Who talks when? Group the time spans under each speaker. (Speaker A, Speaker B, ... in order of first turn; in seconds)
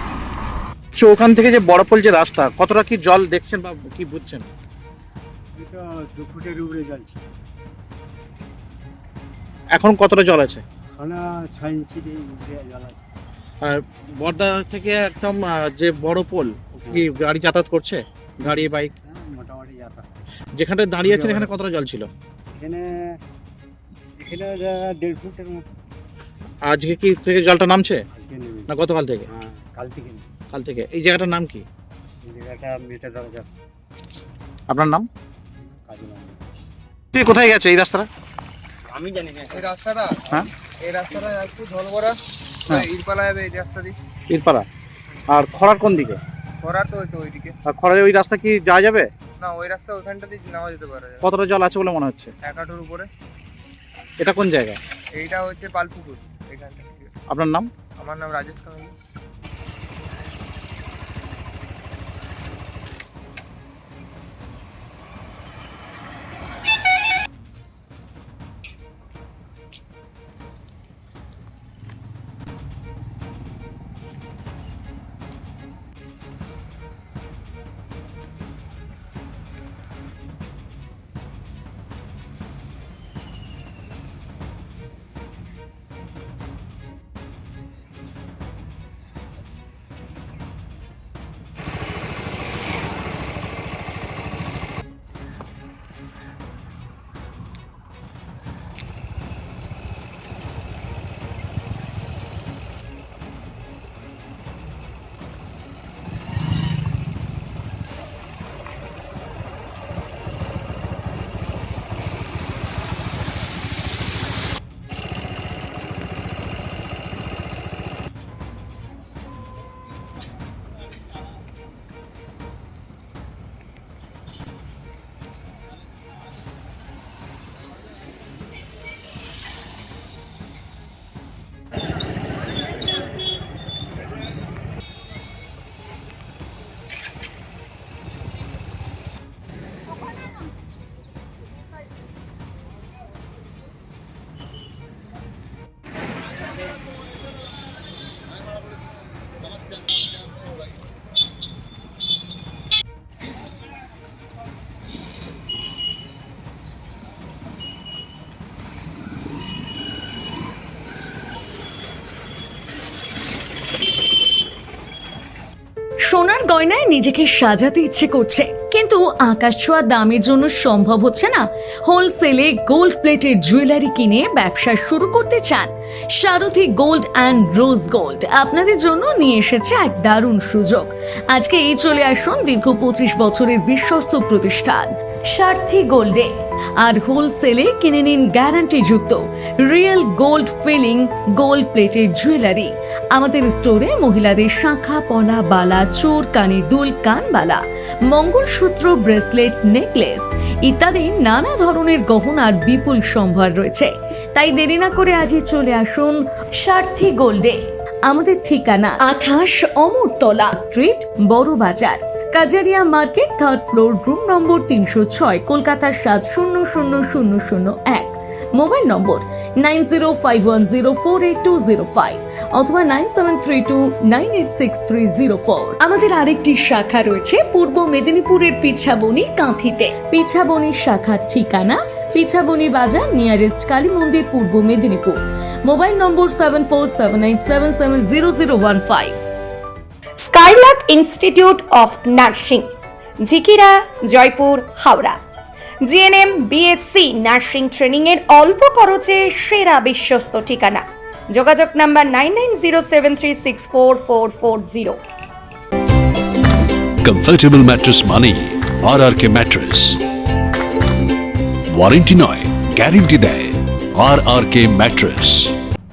Speaker A: 1.0-4.5, 9.7-10.6, 13.6-18.9, 20.6-22.1, 26.6-28.0, 28.7-29.3, 30.5-31.6, 34.7-35.0, 37.1-38.1, 44.3-44.6, 45.3-46.2, 47.7-49.1, 51.2-52.3, 54.2-54.8, 57.3-57.7
Speaker B: 5.6-7.1, 11.0-13.0, 19.1-20.1, 21.0-21.5, 22.6-22.8, 24.2-25.7, 28.2-28.6, 29.3-30.2, 32.3-33.5, 35.9-36.4, 38.9-39.4
Speaker C: 39.5-44.0, 46.6-47.6, 49.4-51.3, 52.4-53.1, 55.1-57.2, 58.0-58.9
Speaker D: 166.1-239.2
Speaker E: 240.2-245.2, 245.8-255.0
Speaker F: 257.1-259.9, 261.7-263.5, 264.0-265.3